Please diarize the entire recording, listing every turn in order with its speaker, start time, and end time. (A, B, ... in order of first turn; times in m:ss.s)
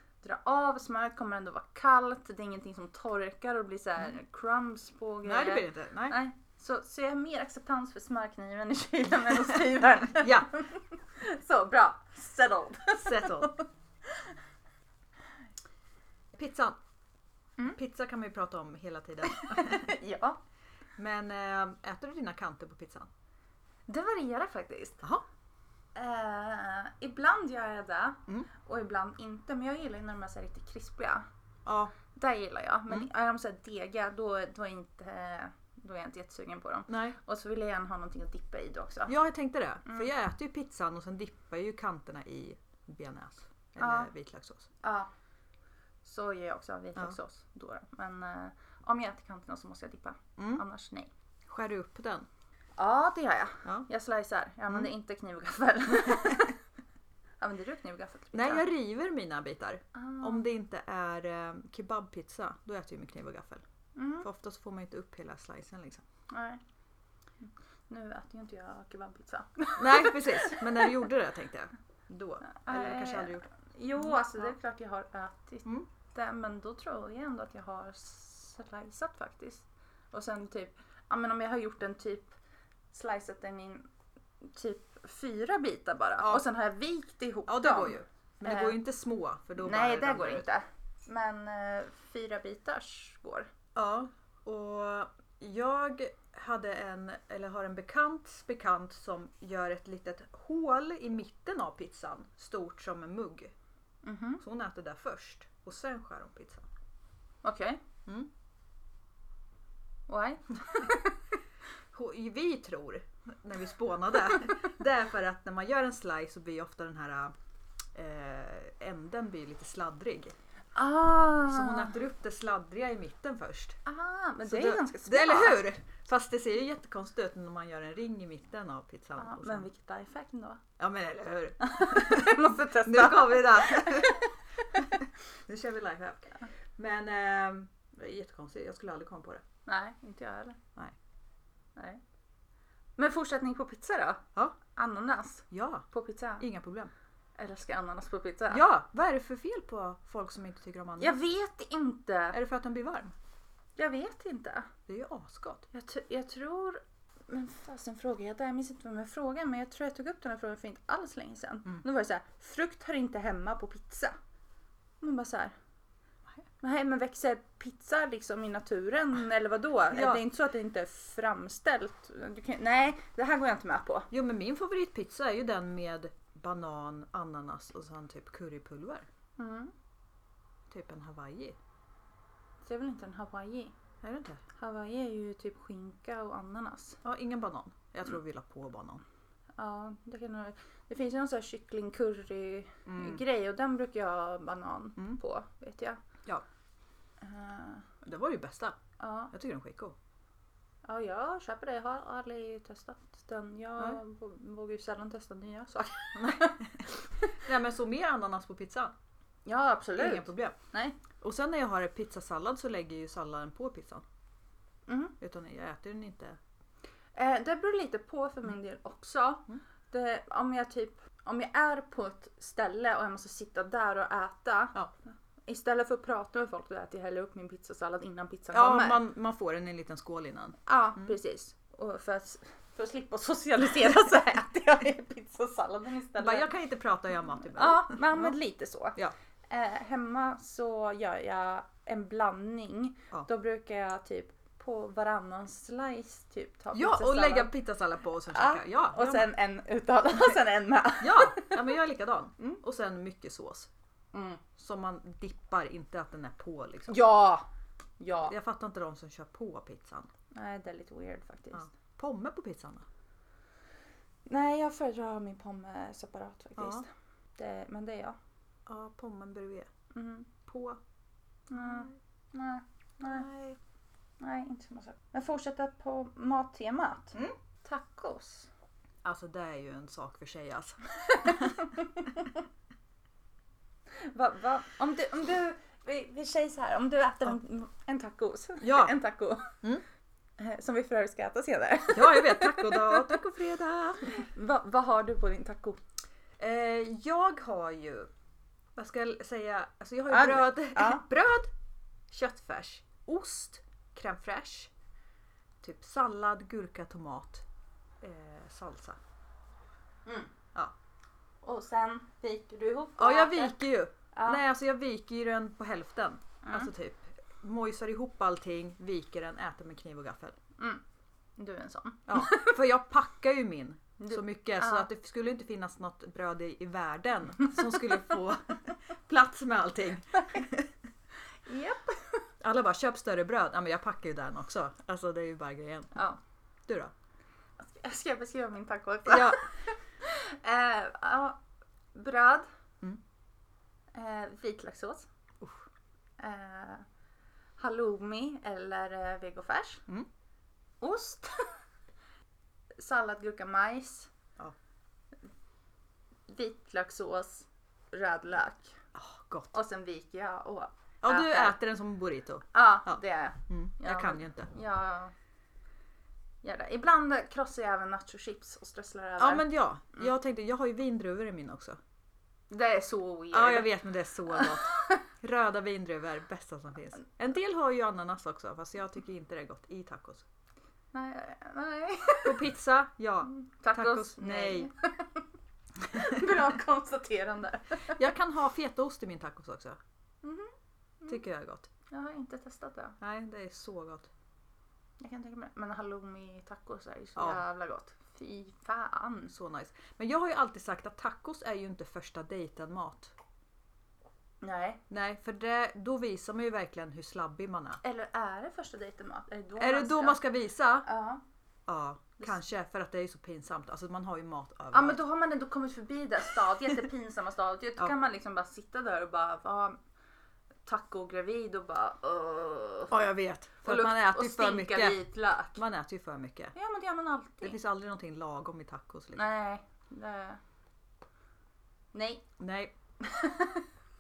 0:00.2-0:14.3 A
0:05.2-0:06.2 B
0:10.2-0:10.5 B
0:13.0-0:13.5 B
0:16.3-0:16.8 B
0:17.7-0:19.9 B
0:19.3-0:20.4 A
0:21.0-0:23.1 B
0:23.9-0:25.0 A
0:26.0-0:31.2 A
0:31.7-0:31.9 B
0:32.2-0:39.2 A
0:36.9-0:37.2 B
0:39.1-0:44.7 B
0:39.8-0:40.1 A
0:43.8-0:44.1 A
0:44.8-0:45.1 A
0:46.0-0:51.1 A
0:50.4-0:50.6 B
0:51.5-0:52.3 B
0:52.8-0:56.6 A
0:57.4-0:58.7 A
0:58.3-1:03.6 B
0:59.9-1:00.4 A
1:04.0-1:04.3 A
1:04.2-1:06.0 B
1:06.3-1:06.6 A
1:07.4-1:11.0 A
1:09.8-1:13.5 B
1:12.5-1:22.4 A
1:14.0-1:14.5 B
1:22.9-1:23.9 A
1:24.5-1:28.7 A
1:27.5-1:30.4 B
1:29.6-1:33.5 A
1:33.8-1:43.5 B
1:44.0-1:44.4 A
1:44.4-1:46.7 B
1:47.4-1:47.8 A
1:50.1-1:51.2 A
1:51.9-1:57.3 B
1:57.9-2:00.4 B
2:00.8-2:02.0 A
2:01.5-2:03.8 B
2:03.8-2:05.6 A
2:04.4-2:09.7 B
2:09.2-2:10.6 A
2:10.8-2:14.2 B
2:11.6-2:15.0 A
2:14.8-2:19.4 B
2:19.7-2:20.6 A
2:21.8-2:22.0 A
2:23.0-2:26.4 A
2:25.5-2:25.9 B
2:26.4-2:26.9 B
2:27.4-2:28.6 A
2:28.5-2:31.2 B
2:31.0-2:32.4 A
2:32.3-2:33.2 B
2:33.8-2:34.7 A
2:34.9-2:35.7 B
2:35.7-2:44.2 A
2:45.0-2:45.6 A
2:46.6-2:54.1 A
2:49.9-2:50.2 B
2:54.1-2:59.1 B
2:59.4-2:59.7 A
3:00.7-3:01.6 B
3:02.6-3:03.8 A
3:04.0-3:04.4 B
3:04.6-3:07.0 A
3:07.0-3:09.0 B
3:09.6-3:16.0 A
3:12.9-3:13.2 B
3:17.2-3:17.9 A
3:18.0-3:18.8 B
3:19.0-3:19.3 A
3:19.3-3:20.0 B
3:20.8-3:27.3 A
3:26.2-3:28.9 B
3:29.5-3:31.0 A
3:30.0-3:30.6 B
3:31.2-3:34.0 B
3:34.9-3:35.2 A
3:35.2-3:36.4 B
3:37.2-3:44.8 A
3:45.5-3:49.0 A
3:48.5-3:51.1 B
3:50.7-3:56.5 A
3:56.2-3:58.4 B
3:57.5-3:59.0 A
3:59.5-4:07.5 A
4:06.7-4:09.3 B
4:08.3-4:11.7 A
4:11.0-4:13.7 B
4:14.1-4:14.4 A
4:14.6-4:17.0 B
4:16.9-4:17.5 A
4:18.0-4:18.3 A
4:18.3-4:20.1 B
4:20.3-4:21.7 A
4:21.5-4:22.9 B
4:24.3-4:28.2 A
4:26.6-4:26.8 B
4:28.7-4:29.7 B
4:29.9-4:30.3 A
4:30.5-4:30.8 B
4:31.5-4:33.3 A
4:31.6-4:31.9 B
4:33.0-4:33.6 B
4:34.2-4:38.5 A
4:39.0-4:41.7 B
4:41.0-4:42.4 A
4:44.0-4:49.6 A
4:48.6-4:48.9 B
4:50.4-4:53.2 A
4:51.9-4:54.2 B
4:54.1-4:55.8 A
4:56.4-4:58.1 B
4:58.8-5:01.5 B
5:00.1-5:01.0 A
5:02.1-5:04.7 B
5:05.6-5:07.4 B
5:08.0-5:09.0 B
5:10.1-5:10.3 A
5:11.4-5:13.6 A
5:13.0-5:20.4 B
5:14.1-5:14.4 A
5:16.4-5:16.7 A
5:21.4-5:22.6 A
5:22.1-5:30.7 B
5:24.0-5:24.9 A
5:31.5-5:32.2 A
5:32.4-5:36.0 B
5:36.7-5:36.9 B
5:37.6-5:41.4 A
5:39.1-5:39.4 B
5:41.9-5:42.5 A
5:43.9-5:45.1 A
5:46.2-5:46.8 A
5:47.6-5:49.8 A
5:50.8-5:51.5 A
5:52.8-5:54.1 A
5:56.3-5:58.8 A
5:59.0-5:59.5 B
5:59.5-6:01.6 A
6:01.0-6:04.5 B
6:02.5-6:05.1 A
6:06.4-6:10.1 A
6:09.2-6:11.8 B
6:12.5-6:13.7 A
6:13.3-6:20.3 B
6:14.3-6:15.0 A
6:20.9-6:22.5 A
6:22.2-6:24.7 B
6:23.3-6:25.2 A
6:25.9-6:28.0 A
6:25.9-6:26.4 B
6:27.9-6:29.8 B
6:30.2-6:31.2 A
6:31.1-6:31.7 B
6:31.9-6:33.0 A
6:33.0-6:34.1 B
6:35.0-6:39.3 A
6:37.2-6:37.4 B
6:39.3-6:43.1 B
6:44.4-6:44.8 A
6:44.9-6:47.8 B
6:47.8-6:50.2 A
6:49.6-6:50.9 B
6:50.8-6:51.2 A
6:51.7-6:55.0 B
6:54.7-6:59.8 A
7:00.7-7:02.9 A
7:02.9-7:05.0 B
7:03.6-7:05.6 A
7:05.6-7:06.5 B
7:06.6-7:07.6 A
7:07.4-7:09.3 B
7:09.2-7:10.4 A
7:11.9-7:12.2 A
7:12.4-7:12.7 B
7:13.0-7:13.7 A